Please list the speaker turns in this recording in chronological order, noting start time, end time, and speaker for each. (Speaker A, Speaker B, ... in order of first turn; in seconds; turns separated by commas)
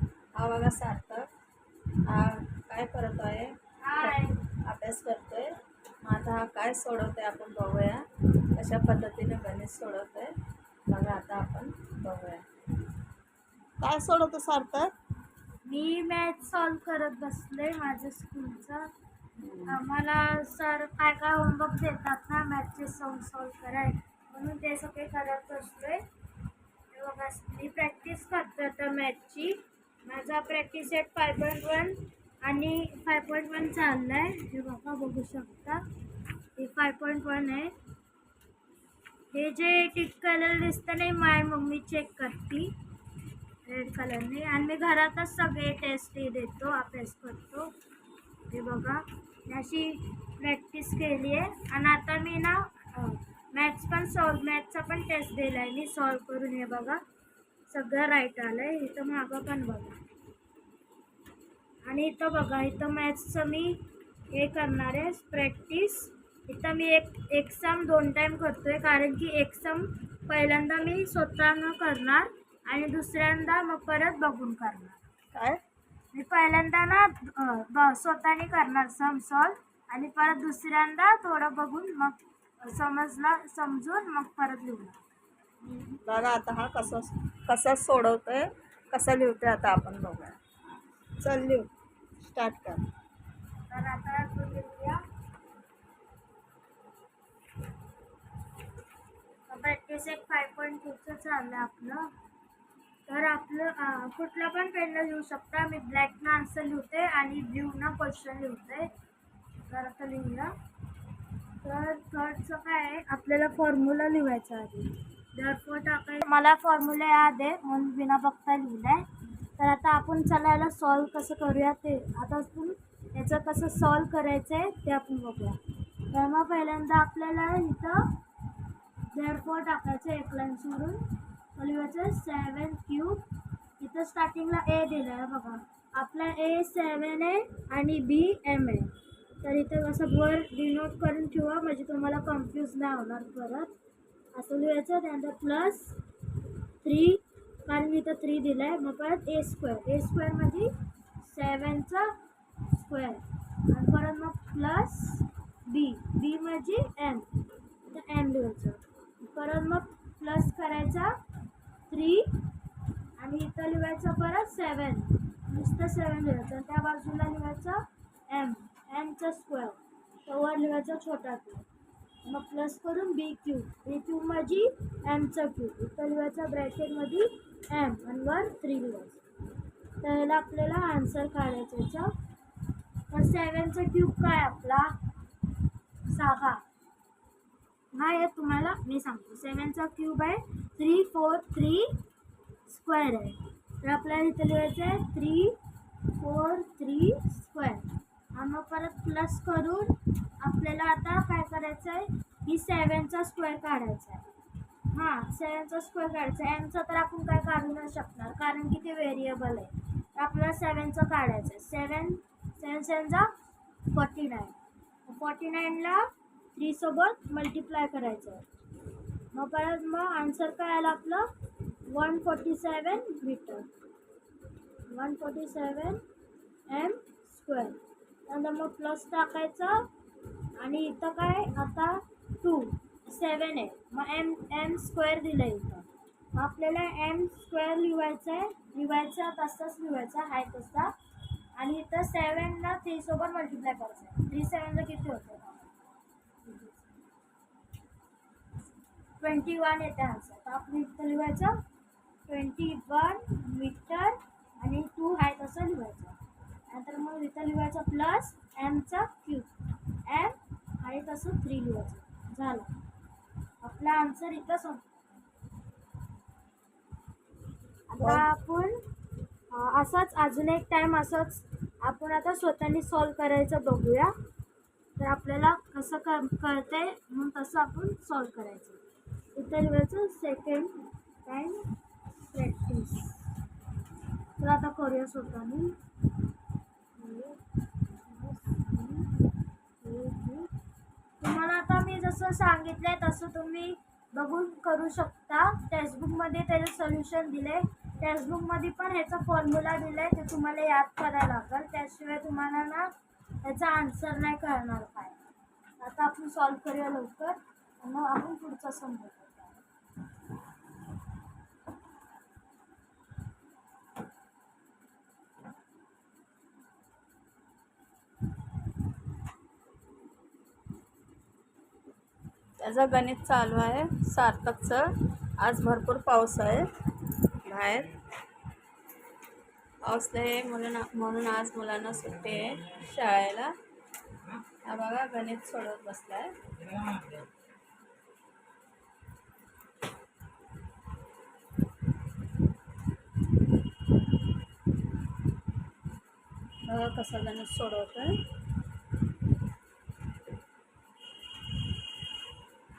Speaker A: 0.3-1.2, Speaker A: 2.0-5.5, Speaker B: 3.8-4.4, Speaker A: 6.0-10.3, Speaker A: 10.8-12.4, Speaker A: 13.8-14.9, Speaker B: 15.6-18.9, Speaker A: 19.4-19.8, Speaker B: 19.7-26.0, Speaker B: 26.9-35.8, Speaker B: 36.5-37.7, Speaker B: 39.3-42.8, Speaker B: 43.6-47.7, Speaker B: 48.5-57.0, Speaker B: 57.7-60.0, Speaker B: 61.8-75.0, Speaker A: 75.3-75.6, Speaker B: 76.1-85.0, Speaker A: 86.0-90.4, Speaker A: 91.2-91.7, Speaker A: 92.2-92.8, Speaker B: 93.7-95.0, Speaker B: 99.5-102.1, Speaker B: 103.1-108.9, Speaker B: 109.7-110.5, Speaker B: 111.6-125.6, Speaker B: 126.1-128.2, Speaker B: 129.1-133.2, Speaker B: 133.8-143.7, Speaker B: 144.3-146.0, Speaker B: 146.8-157.3, Speaker B: 157.8-161.2, Speaker B: 161.9-162.4, Speaker B: 163.2-171.7, Speaker B: 172.2-179.2, Speaker B: 180.0-182.1, Speaker B: 183.1-184.9, Speaker B: 186.1-186.6, Speaker B: 187.9-192.0, Speaker B: 192.7-204.3, Speaker B: 204.9-213.3, Speaker B: 213.8-218.4, Speaker B: 219.3-221.3, Speaker B: 221.9-223.7, Speaker B: 224.9-226.0, Speaker B: 226.7-229.9, Speaker B: 230.6-240.9, Speaker B: 241.6-245.7, Speaker B: 246.4-246.8, Speaker B: 249.2-251.6, Speaker B: 252.3-256.2, Speaker B: 256.7-259.5, Speaker B: 260.0-262.7, Speaker B: 263.6-264.9, Speaker B: 267.9-268.8, Speaker A: 268.0-268.2, Speaker B: 269.5-274.1, Speaker B: 275.0-278.8, Speaker B: 279.3-281.7, Speaker B: 282.2-283.3, Speaker B: 284.4-285.8, Speaker B: 286.9-289.2, Speaker B: 289.8-290.5, Speaker B: 291.2-302.9, Speaker B: 303.4-305.2, Speaker B: 305.8-309.6, Speaker A: 322.6-326.7, Speaker A: 327.4-327.9, Speaker A: 329.8-333.5, Speaker A: 334.6-336.4, Speaker A: 346.6-348.2